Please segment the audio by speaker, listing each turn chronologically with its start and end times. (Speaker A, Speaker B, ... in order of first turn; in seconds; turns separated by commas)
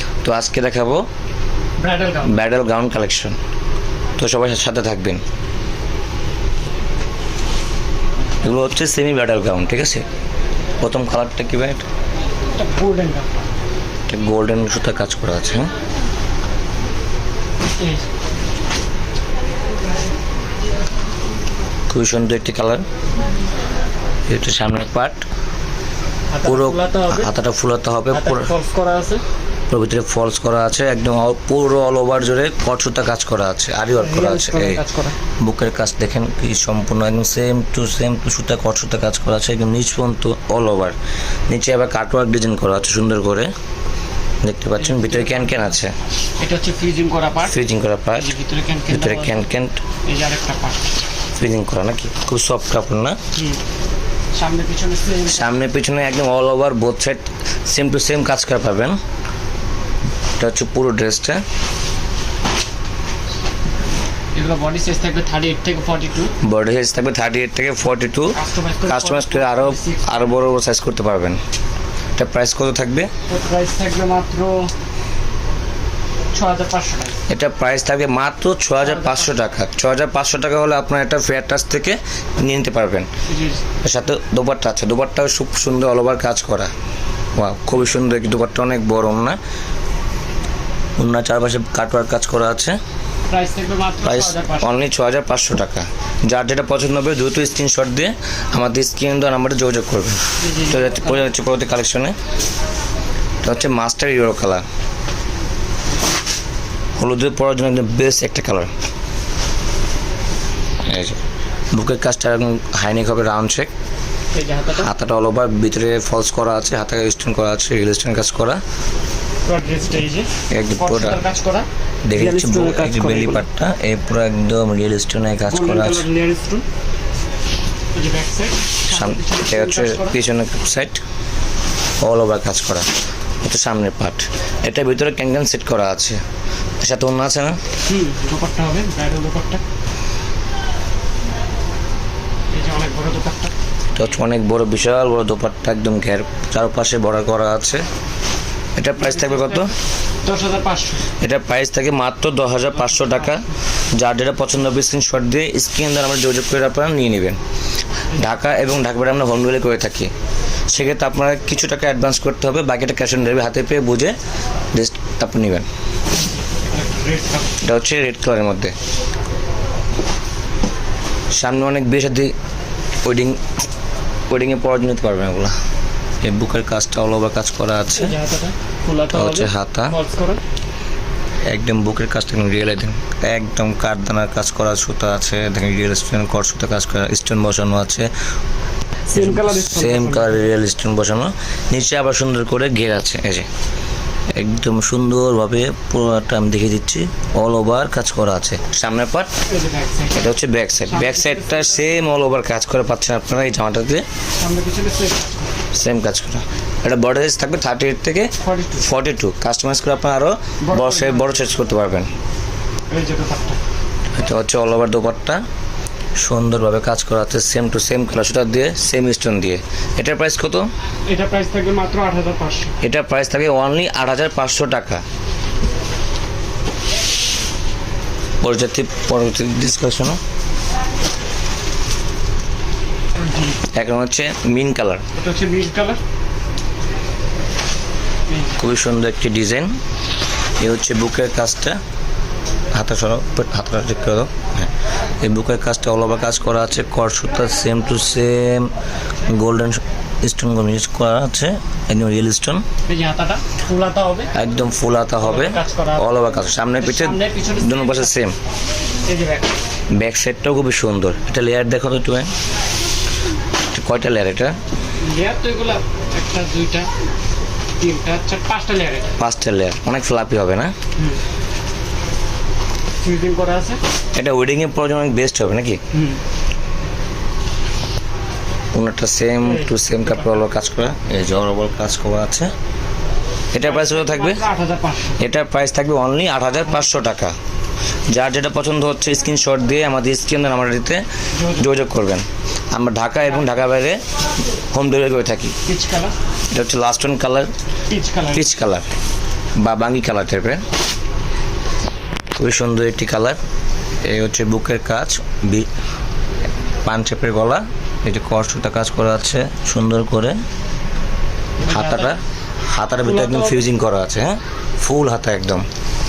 Speaker A: 0.2-1.0, Speaker B: 1.8-2.4, Speaker A: 2.2-3.4, Speaker A: 4.2-5.2, Speaker A: 8.4-10.1, Speaker A: 10.8-11.8, Speaker B: 12.5-13.3, Speaker A: 14.1-15.7, Speaker B: 17.8-18.0, Speaker A: 21.9-22.8, Speaker A: 24.3-25.2, Speaker B: 26.3-27.3, Speaker A: 26.4-28.5, Speaker B: 28.1-29.2, Speaker A: 29.7-34.8, Speaker B: 34.0-35.1, Speaker A: 35.4-40.9, Speaker A: 41.5-43.5, Speaker A: 44.4-46.0, Speaker B: 44.8-45.8, Speaker B: 46.4-47.6, Speaker A: 47.4-48.3, Speaker B: 48.2-49.4, Speaker A: 48.9-49.8, Speaker B: 50.0-50.9, Speaker A: 51.4-53.2, Speaker B: 53.3-53.6, Speaker B: 54.3-55.5, Speaker A: 55.3-59.0, Speaker A: 60.4-61.4, Speaker B: 64.3-66.3, Speaker A: 66.4-71.4, Speaker B: 68.3-70.4, Speaker A: 72.2-73.1, Speaker B: 73.3-74.7, Speaker B: 76.3-77.2, Speaker A: 77.3-83.1, Speaker B: 78.8-79.3, Speaker B: 83.3-83.6, Speaker A: 83.8-86.7, Speaker A: 87.3-89.4, Speaker A: 91.0-92.8, Speaker B: 93.3-94.7, Speaker A: 94.0-102.2, Speaker B: 100.4-101.2, Speaker A: 103.4-104.6, Speaker A: 107.0-108.7, Speaker A: 110.8-111.2, Speaker A: 111.7-113.7, Speaker B: 114.3-114.9, Speaker A: 114.7-118.6, Speaker B: 119.4-123.4, Speaker A: 120.5-121.2, Speaker A: 122.0-126.0, Speaker B: 125.5-126.7, Speaker B: 127.9-130.2, Speaker A: 128.9-131.0, Speaker A: 132.0-132.9, Speaker A: 133.4-136.2, Speaker A: 136.8-137.6, Speaker B: 137.9-139.6, Speaker B: 142.5-143.5, Speaker A: 143.9-147.8, Speaker A: 148.8-149.7, Speaker B: 149.0-151.1, Speaker A: 151.2-157.4, Speaker B: 152.8-153.4, Speaker A: 158.2-160.1, Speaker A: 160.7-164.2, Speaker A: 164.7-165.7, Speaker B: 166.5-167.6, Speaker A: 167.6-168.7, Speaker A: 171.3-172.3, Speaker A: 173.0-173.4, Speaker A: 174.3-175.5, Speaker A: 176.2-178.1, Speaker B: 177.9-180.4, Speaker A: 179.1-179.9, Speaker A: 181.5-188.1, Speaker B: 189.1-190.5, Speaker A: 189.1-193.5, Speaker A: 194.3-199.3, Speaker B: 199.5-200.3, Speaker A: 200.1-204.0, Speaker B: 200.9-202.0, Speaker B: 204.4-205.5, Speaker A: 205.7-212.1, Speaker B: 208.4-208.9, Speaker B: 210.6-211.3, Speaker B: 212.9-213.6, Speaker A: 214.1-215.4, Speaker A: 216.2-220.7, Speaker B: 221.1-222.7, Speaker A: 222.8-225.0, Speaker A: 228.4-230.2, Speaker B: 233.2-233.6, Speaker A: 233.7-235.0, Speaker B: 235.1-236.0, Speaker B: 238.3-238.6, Speaker A: 238.6-239.8, Speaker A: 240.6-241.8, Speaker A: 242.7-244.7, Speaker A: 245.2-248.7, Speaker A: 249.3-252.6, Speaker B: 252.9-254.3, Speaker A: 254.3-258.4, Speaker B: 255.2-256.1, Speaker B: 256.8-258.1, Speaker B: 259.0-259.5, Speaker A: 259.9-262.3, Speaker A: 263.7-264.6, Speaker B: 265.0-266.9, Speaker B: 267.8-269.2, Speaker A: 269.2-270.7, Speaker B: 273.0-273.8, Speaker A: 274.1-275.8, Speaker B: 275.9-276.2, Speaker A: 278.7-282.5, Speaker B: 279.4-280.4, Speaker A: 283.5-284.4, Speaker B: 283.6-285.2, Speaker A: 285.2-287.4, Speaker A: 288.1-294.0, Speaker B: 291.4-291.7, Speaker A: 294.7-295.5, Speaker B: 295.6-296.1, Speaker A: 296.5-297.5, Speaker B: 297.9-298.5, Speaker A: 298.3-298.9, Speaker A: 299.6-300.6, Speaker A: 302.4-303.4, Speaker A: 304.0-305.7, Speaker A: 306.8-310.4, Speaker B: 311.6-312.2, Speaker A: 311.7-315.7, Speaker B: 313.0-313.7